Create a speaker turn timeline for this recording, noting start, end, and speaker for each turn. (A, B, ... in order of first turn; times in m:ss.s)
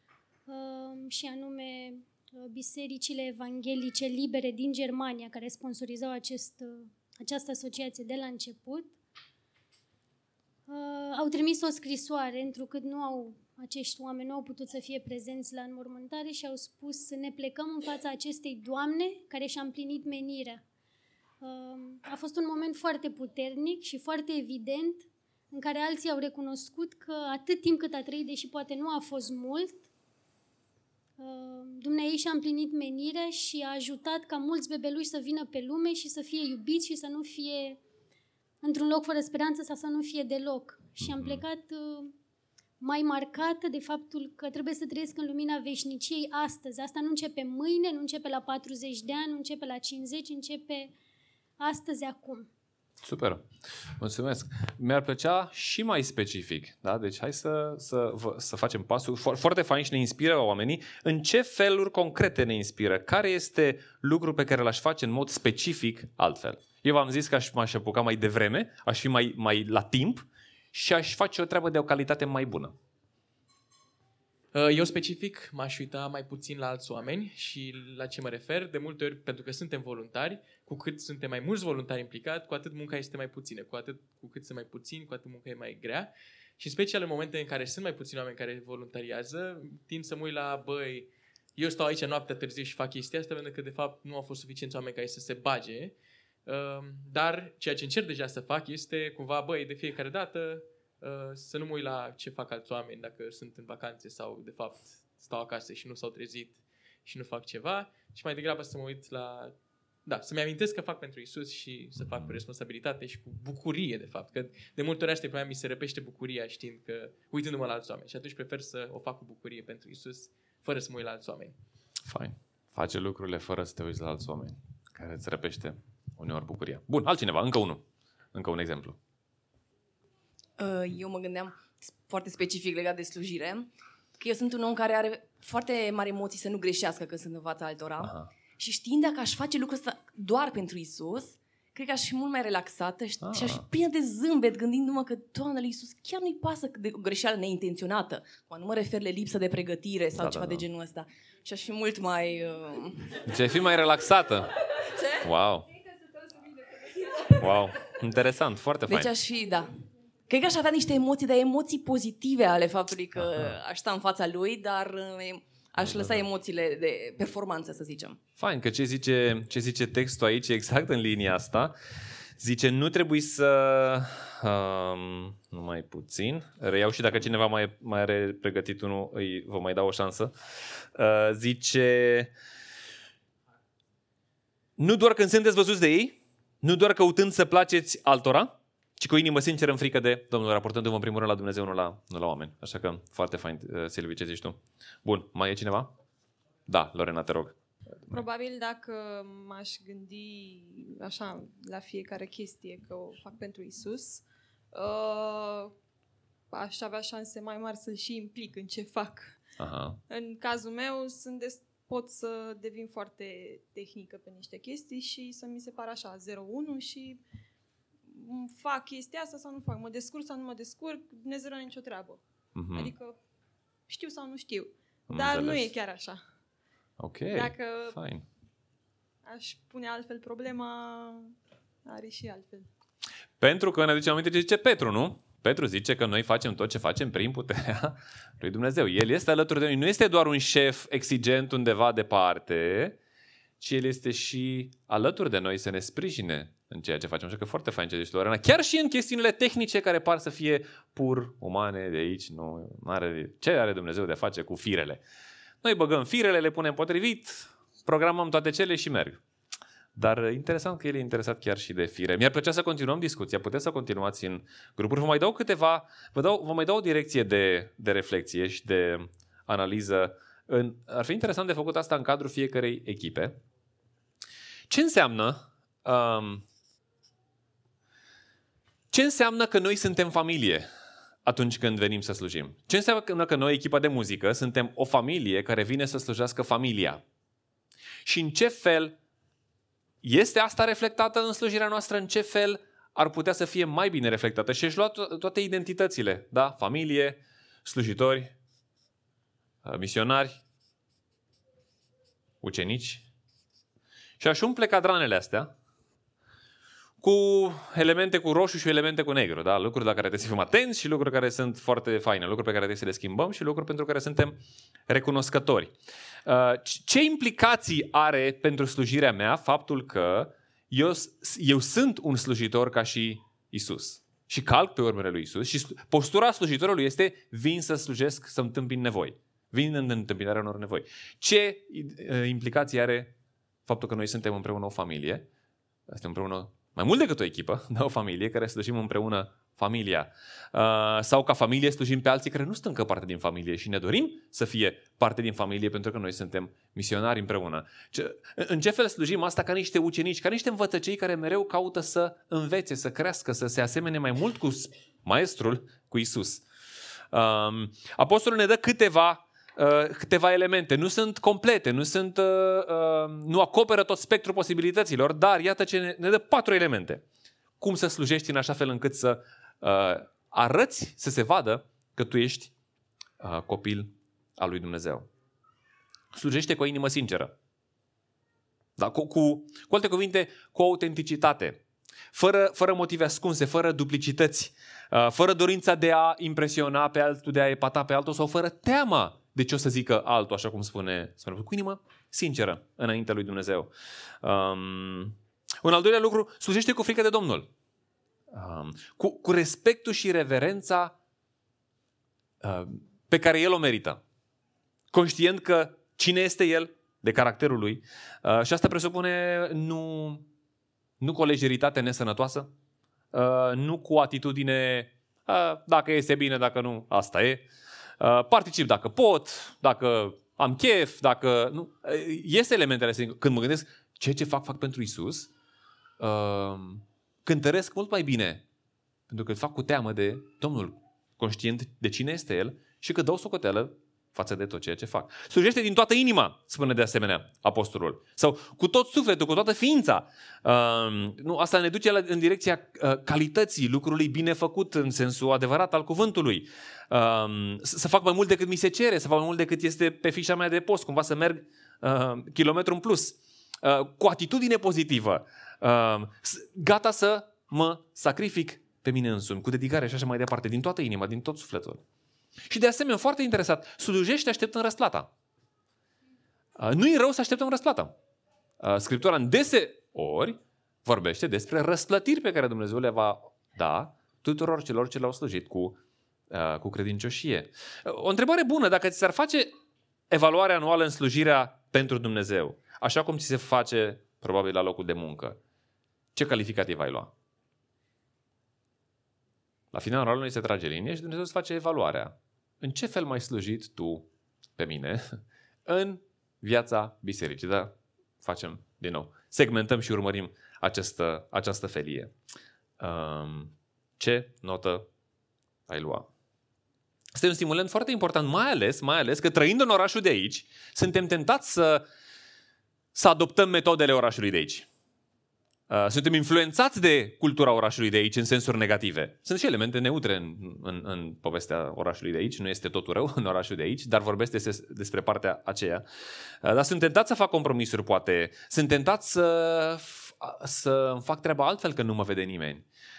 0:00.5-0:08.9 A
0:10.7-0:20.6 A
0:21.4-0:29.8 A
0:31.2-0:37.8 A
0:38.6-0:42.1 A
0:41.0-0:41.4 B
0:42.8-0:50.9 A
0:51.6-0:52.5 A
0:53.0-0:53.4 B
0:54.0-1:12.8 B
1:14.5-1:36.0 C
1:36.5-2:01.6 C
1:52.0-1:52.4 B
2:02.1-2:09.0 B
2:10.6-2:33.1 D
2:18.0-2:18.3 B
2:23.2-2:23.7 B
2:30.2-2:30.7 B
2:33.2-2:34.6 B
2:35.2-2:35.7 B
2:36.0-2:36.9 E
2:37.3-2:39.1 B
2:38.9-2:48.2 D
2:43.2-2:43.6 B
2:45.8-2:46.2 B
2:48.4-2:51.7 B
2:52.4-3:00.3 B
3:01.0-3:02.3 B
3:04.8-3:15.9 B
3:16.7-3:17.6 B
3:18.1-3:25.7 E
3:26.5-3:29.4 E
3:29.6-3:30.0 B
3:30.1-3:37.2 E
3:38.1-3:42.2 E
3:42.6-3:42.9 B
3:42.7-3:43.2 E
3:43.9-3:46.2 E
3:45.1-3:45.7 B
3:47.0-3:48.2 B
3:47.3-3:48.0 E
3:49.2-3:51.3 E
3:51.9-3:52.7 E
3:53.4-4:03.0 B
4:03.6-4:15.0 B
4:15.6-4:19.2 B
4:20.0-4:33.4 B
4:34.7-4:36.5 B
4:38.9-4:40.7 B
4:41.2-4:47.0 B
4:48.0-4:49.0 B
4:50.0-4:58.3 B
4:59.6-5:00.4 B
5:02.4-5:03.0 B
5:04.2-5:05.5 B
5:07.0-5:15.7 B
5:16.3-5:33.1 B
5:33.7-5:35.3 B
5:35.9-5:56.4 B
5:57.1-6:07.0 B
6:07.6-6:12.5 B
6:13.2-6:15.1 B
6:16.1-6:17.3 B
6:18.8-6:21.6 B
6:22.1-6:33.7 B
6:34.2-6:37.5 B
6:38.3-6:40.9 B
6:42.4-6:44.0 B
6:44.9-6:50.3 B
6:51.0-6:52.5 B
6:53.1-6:57.5 B
6:58.0-7:05.3 B
7:06.0-7:08.4 B
7:09.1-7:41.8 B
7:42.5-7:45.1 B
7:46.6-7:48.0 B
7:48.6-7:55.8 B
7:56.3-7:59.5 B
8:00.1-8:05.4 B
8:06.2-8:07.1 B
8:09.7-8:22.2 B
8:22.8-8:24.9 B
8:25.7-8:26.1 B
8:27.2-8:31.8 B
8:32.9-8:34.7 B
8:35.7-8:45.8 B
8:46.4-8:52.6 B